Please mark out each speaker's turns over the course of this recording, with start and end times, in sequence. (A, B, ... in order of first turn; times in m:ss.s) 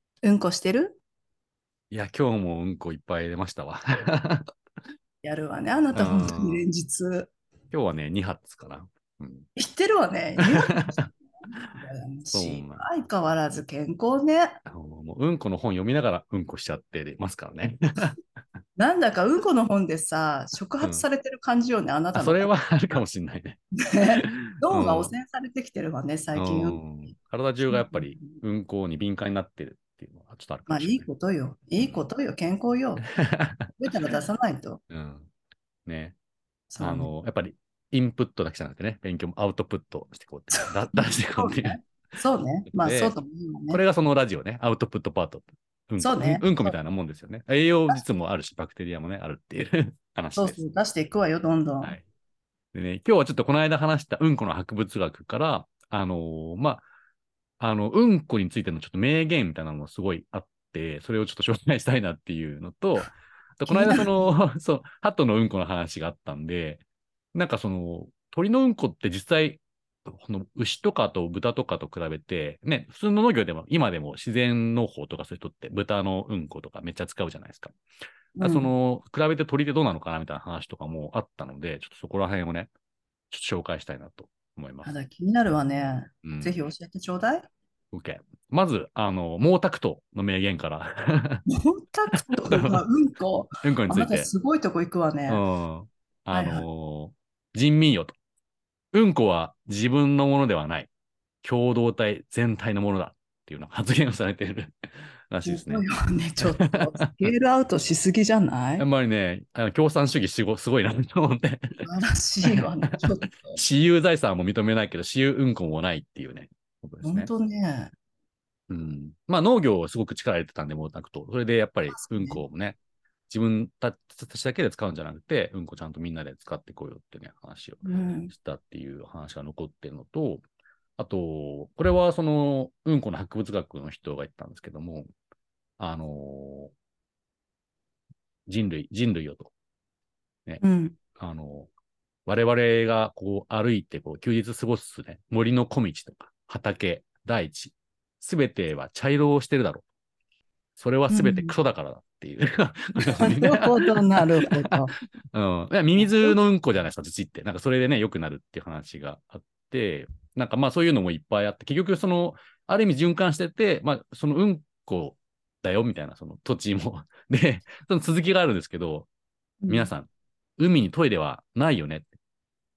0:00.2-0:01.0 A
0:01.9-0:04.5 B
0:05.2-0:07.3 A
0:05.9-0:06.6 B
0:07.7-0:09.5 B
0:09.6-0:14.6 A
0:10.5-0:11.0 B
0:12.3-0:12.8 B
0:14.7-0:18.2 B
0:18.8-0:23.0 A
0:20.8-0:21.1 B
0:22.2-0:23.6 B
0:23.8-0:26.8 A
0:24.2-0:25.1 B
0:26.4-0:31.1 B
0:27.6-0:28.4 A
0:30.7-0:33.1 A
0:31.8-0:32.1 B
0:33.2-0:33.7 B
0:33.8-0:34.8 A
0:34.9-0:35.3 B
0:35.9-0:36.2 B
0:36.7-0:37.1 A
0:36.8-0:41.8 B
0:40.5-0:43.8 A
0:42.7-0:43.2 B
0:43.7-0:50.6 B
0:46.0-0:46.8 A
0:50.4-0:52.0 A
0:52.7-0:56.8 B
0:57.6-1:06.8 B
1:03.7-1:04.1 A
1:07.3-1:17.8 B
1:18.4-1:18.7 A
1:18.4-1:22.7 B
1:23.3-1:24.9 B
1:24.8-1:27.5 A
1:26.2-1:26.6 B
1:27.9-1:31.4 B
1:31.5-1:35.4 A
1:32.3-1:32.8 B
1:33.6-1:34.3 B
1:35.3-1:38.2 B
1:36.3-1:36.6 A
1:38.9-1:40.9 B
1:41.4-1:45.9 B
1:45.4-1:48.8 A
1:46.6-1:47.3 B
1:48.8-1:51.9 B
1:51.8-1:53.6 A
1:52.4-1:57.3 B
1:57.0-1:57.9 A
1:58.7-2:02.8 B
2:01.9-2:02.4 A
2:03.3-2:10.4 B
2:07.8-2:08.3 A
2:11.0-2:15.1 B
2:15.8-2:16.7 B
2:18.5-2:19.5 B
2:20.6-2:21.0 A
2:21.2-2:21.7 B
2:22.3-2:29.8 B
2:30.8-2:34.7 B
2:31.1-2:31.6 A
2:33.1-2:35.0 A
2:35.3-2:49.1 B
2:36.0-2:36.4 A
2:49.6-2:49.9 A
2:49.7-2:52.1 B